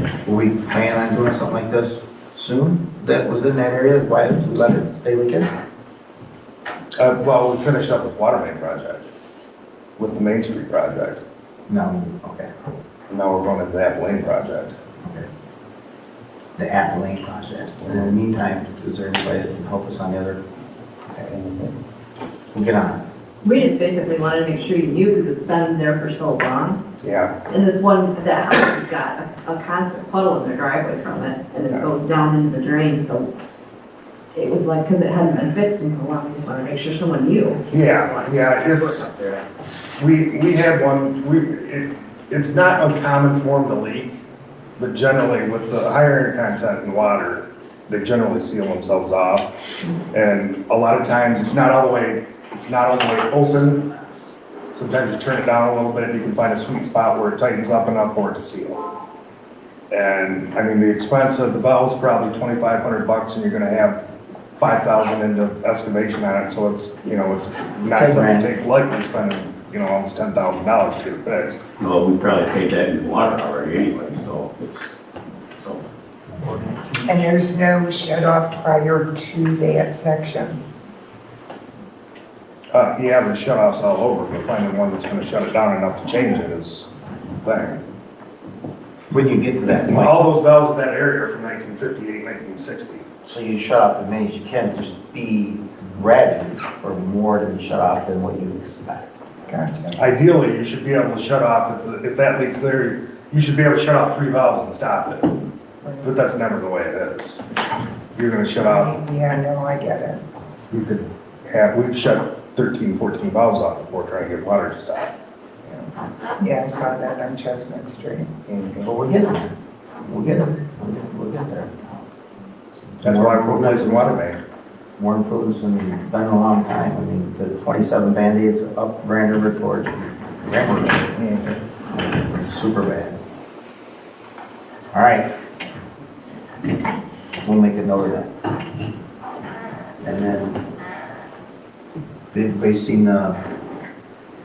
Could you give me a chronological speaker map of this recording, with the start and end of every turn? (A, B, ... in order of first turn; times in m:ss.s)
0:00.2-0:05.5 A
0:07.0-0:09.0 B
0:10.0-0:11.2 B
0:11.7-0:12.5 A
0:13.1-0:14.7 B
0:16.6-0:20.4 A
0:21.2-0:21.7 B
0:22.5-0:23.0 A
0:23.4-0:26.8 C
0:27.0-0:27.3 B
0:27.5-0:33.3 C
0:34.3-0:39.4 C
0:37.7-0:39.1 B
0:40.0-0:44.1 B
0:44.8-0:49.5 B
0:50.1-0:53.9 B
0:54.8-0:58.8 B
0:59.9-1:04.0 B
1:04.6-1:11.6 B
1:07.9-1:08.5 A
1:11.8-1:14.9 D
1:17.1-1:20.6 E
1:22.7-1:26.9 B
1:27.4-1:27.8 B
1:29.1-1:30.2 A
1:29.9-1:33.1 B
1:33.2-1:39.1 A
1:39.5-1:40.0 E
1:40.0-1:45.4 B
1:45.8-1:46.1 E
1:46.0-1:47.4 B
1:48.2-1:49.0 B
1:48.6-1:50.2 E
1:50.7-1:55.1 B
1:56.4-1:58.3 E
1:58.5-1:58.9 B
1:58.8-1:59.5 A
2:00.0-2:01.9 A
2:02.9-2:04.2 A
2:03.0-2:04.4 B
2:05.0-2:11.2 A
2:11.1-2:11.5 B
2:11.9-2:13.2 A
2:14.9-2:15.3 A
2:17.4-2:18.3 A
2:20.0-2:20.6 A
2:22.3-2:23.4 A